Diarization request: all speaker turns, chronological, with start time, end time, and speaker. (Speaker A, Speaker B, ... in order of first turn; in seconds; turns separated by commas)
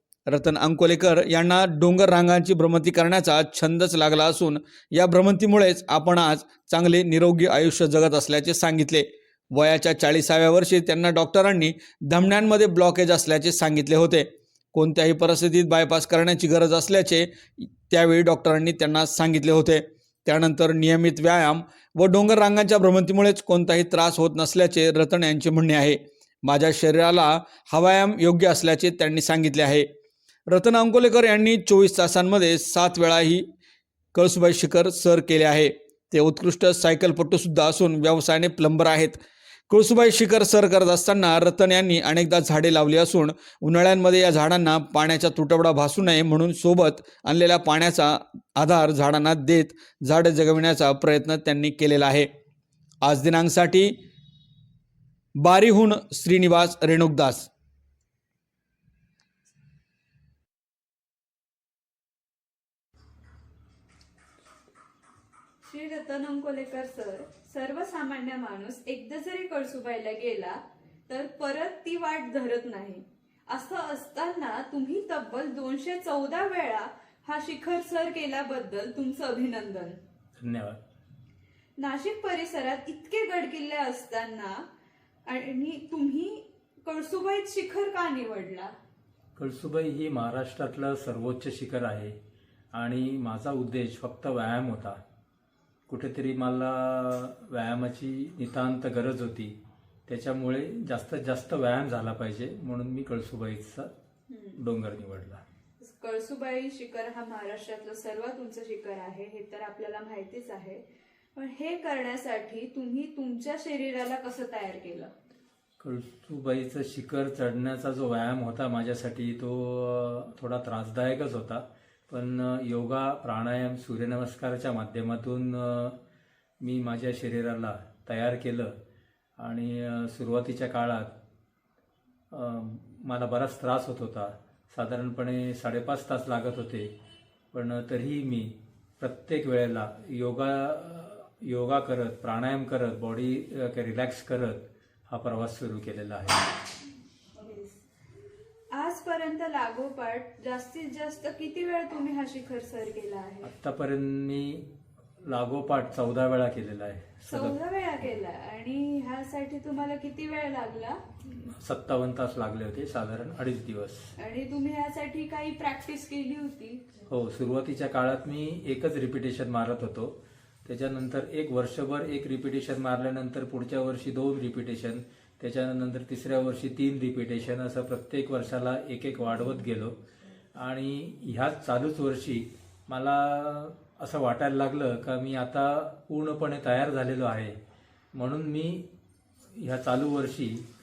Speaker A: 0.3-29.9, Speaker A: 30.5-33.5, Speaker A: 34.1-52.3, Speaker A: 53.0-54.0, Speaker A: 55.4-57.5, Speaker B: 65.7-80.0, Speaker C: 80.4-80.8, Speaker B: 81.8-84.6, Speaker B: 85.3-88.7, Speaker C: 89.4-92.2, Speaker C: 92.7-95.0, Speaker C: 95.9-103.9, Speaker B: 104.3-104.6, Speaker C: 104.6-105.4, Speaker B: 105.8-110.8, Speaker B: 111.4-115.1, Speaker C: 115.8-126.0, Speaker C: 126.6-128.8, Speaker C: 129.4-131.1, Speaker C: 132.3-136.9, Speaker C: 137.5-146.6, Speaker B: 147.3-147.8, Speaker B: 148.7-153.5, Speaker C: 153.4-154.7, Speaker C: 155.2-157.6, Speaker B: 157.3-161.0, Speaker C: 161.3-164.1, Speaker B: 164.2-167.0, Speaker C: 167.1-180.0, Speaker C: 180.6-187.6, Speaker C: 188.1-188.9, Speaker C: 189.5-190.7